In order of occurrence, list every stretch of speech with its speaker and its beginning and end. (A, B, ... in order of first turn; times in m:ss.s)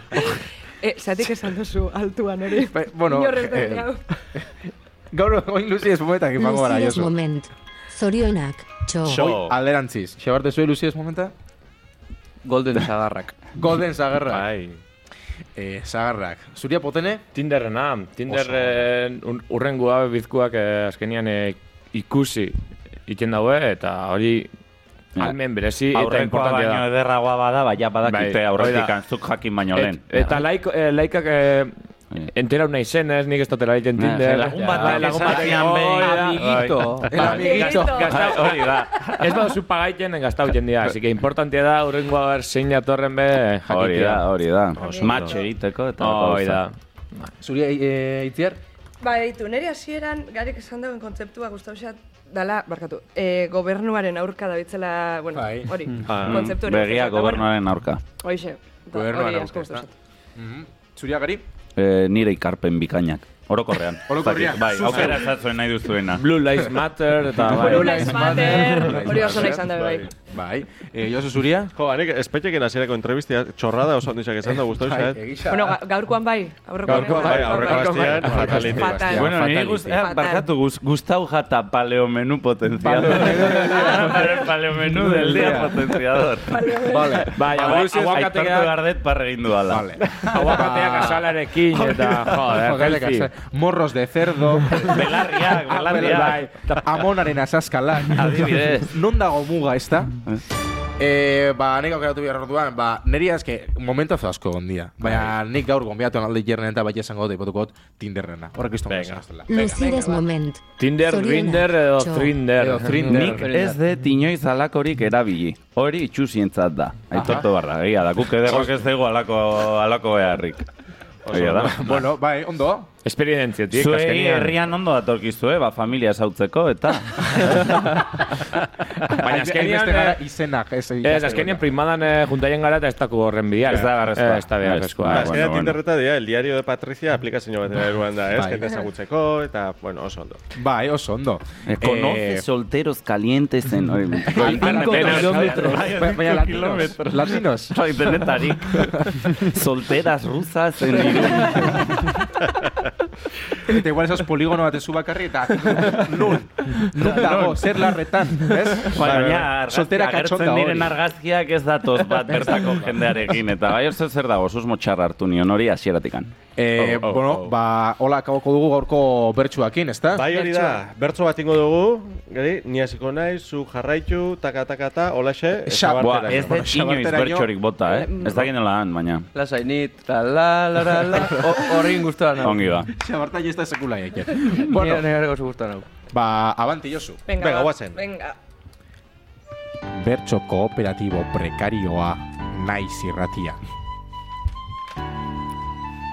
0:00.2-0:04.0 A
0:02.6-0:04.5 B
0:05.1-0:07.2 B
0:06.4-0:09.3 C
0:09.0-0:11.3 B
0:09.0-0:09.6 D
0:12.4-0:13.3 E
0:13.6-0:14.5 B
0:14.3-0:14.8 D
0:15.6-0:17.2 B
0:17.3-0:24.5 F
0:18.3-0:18.8 B
0:25.2-0:30.4 G
0:25.2-0:26.9 F
0:28.0-0:28.9 F
0:29.7-0:31.7 F
0:32.3-0:36.5 F
0:33.9-0:39.5 G
0:34.5-0:37.7 E
0:37.1-0:38.1 B
0:37.1-0:38.4 F
0:37.2-0:38.7 A
0:39.2-0:44.2 F
0:43.7-0:46.6 G
0:44.7-0:45.5 A
0:45.0-0:45.4 D
0:46.0-0:47.3 F
0:47.4-0:48.6 B
0:49.0-0:57.5 A
0:55.3-0:55.7 B
0:56.0-0:56.5 D
0:56.1-0:58.0 G
0:58.2-0:59.9 A
0:58.9-1:01.4 B
1:01.8-1:06.3 G
1:04.1-1:05.3 B
1:06.2-1:08.3 F
1:07.3-1:11.7 B
1:07.5-1:10.1 A
1:09.7-1:10.1 D
1:11.7-1:15.2 D
1:14.7-1:15.8 B
1:15.5-1:20.4 A
1:16.8-1:19.8 B
1:16.9-1:17.4 F
1:17.1-1:17.6 G
1:17.2-1:19.0 D
1:18.4-1:18.6 F
1:19.1-1:26.6 G
1:22.8-1:25.9 B
1:26.5-1:27.3 A
1:26.8-1:28.7 B
1:27.3-1:28.7 F
1:27.4-1:30.0 G
1:29.7-1:35.0 B
1:30.2-1:33.3 F
1:34.9-1:36.5 G
1:35.6-1:40.1 B
1:36.0-1:37.0 F
1:38.1-1:38.9 G
1:41.0-1:49.9 B
1:45.0-1:45.3 G
1:48.9-1:49.2 D
1:49.4-1:52.4 C
1:49.6-1:50.2 A
1:50.8-1:53.1 F
1:52.6-1:53.5 B
1:52.7-1:53.8 E
1:53.0-2:00.6 G
1:57.1-1:57.5 B
2:01.2-2:01.9 D
2:01.3-2:02.0 G
2:01.6-2:02.9 B
2:03.0-2:04.6 F
2:03.7-2:07.8 G
2:09.1-2:10.2 F
2:09.1-2:11.7 B
2:11.0-2:15.3 F
2:13.6-2:15.8 G
2:15.1-2:20.4 D
2:18.3-2:18.6 B
2:20.5-2:22.4 B
2:21.6-2:32.2 G
2:24.2-2:27.8 B
2:24.3-2:25.6 F
2:24.6-2:25.8 E
2:28.8-2:29.1 B
2:33.6-2:41.0 B
2:36.1-2:37.8 G
2:38.8-2:47.5 G
2:39.0-2:39.4 D
2:46.6-2:50.4 B
2:50.1-2:56.5 D
2:50.3-2:50.8 A
2:55.6-2:57.5 B
2:56.0-2:59.2 G
2:58.0-2:58.3 A
2:59.3-3:02.7 E
3:02.4-3:02.9 G
3:02.9-3:05.0 B
3:04.5-3:05.9 E
3:06.1-3:07.2 B
3:07.3-3:08.4 A
3:07.3-3:08.0 D
3:09.9-3:13.6 B